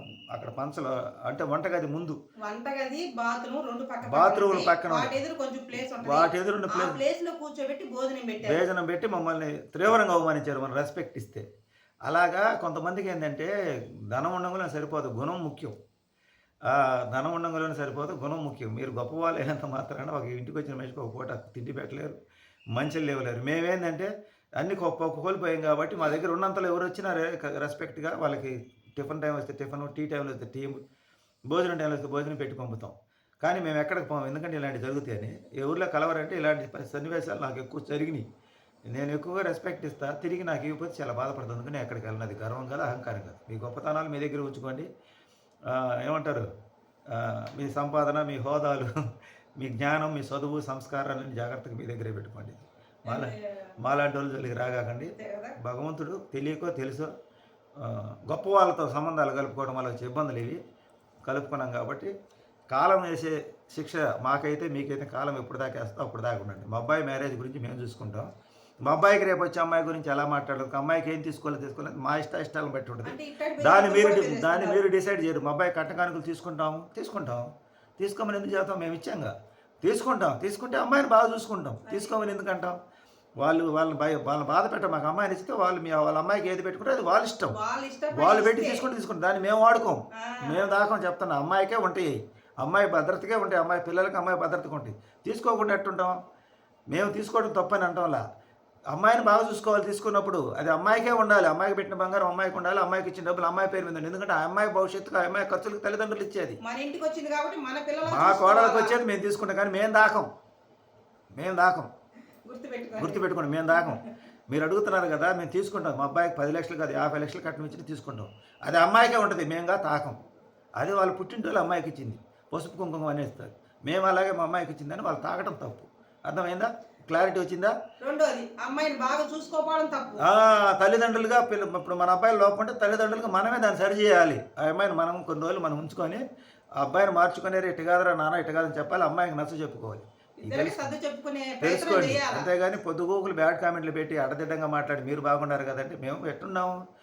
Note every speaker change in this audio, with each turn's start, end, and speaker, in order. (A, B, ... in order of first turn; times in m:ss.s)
0:00.3-0:02.2 A
0:02.4-0:08.6 B
0:04.0-0:05.1 A
0:06.0-0:07.0 A
0:08.4-0:11.4 A
0:12.0-0:13.5 A
0:14.1-0:15.7 A
0:16.7-0:22.2 A
0:22.7-0:30.8 A
0:31.5-0:38.2 A
0:38.9-0:44.9 A
0:45.7-0:46.4 A
0:47.1-0:48.9 A
0:49.6-0:57.1 A
0:53.0-0:53.5 B
0:55.2-0:55.6 B
0:57.8-1:00.6 A
1:01.2-1:02.1 A
1:02.7-1:08.3 A
1:08.8-1:22.8 A
1:13.0-1:14.8 B
1:21.9-1:22.1 B
1:23.4-1:27.6 A
1:27.5-1:28.9 B
1:28.1-1:36.1 A
1:30.2-1:30.8 B
1:36.9-1:38.2 A
1:38.9-1:46.6 A
1:46.6-1:49.0 B
1:48.0-1:50.3 A
1:51.4-1:51.9 A
1:52.4-1:54.1 B
1:53.0-1:54.0 A
1:54.5-2:00.2 A
2:00.8-2:07.7 A
2:08.0-2:10.2 B
2:10.2-2:16.2 A
2:16.8-2:20.9 A
2:20.4-2:22.5 B
2:21.6-2:26.8 A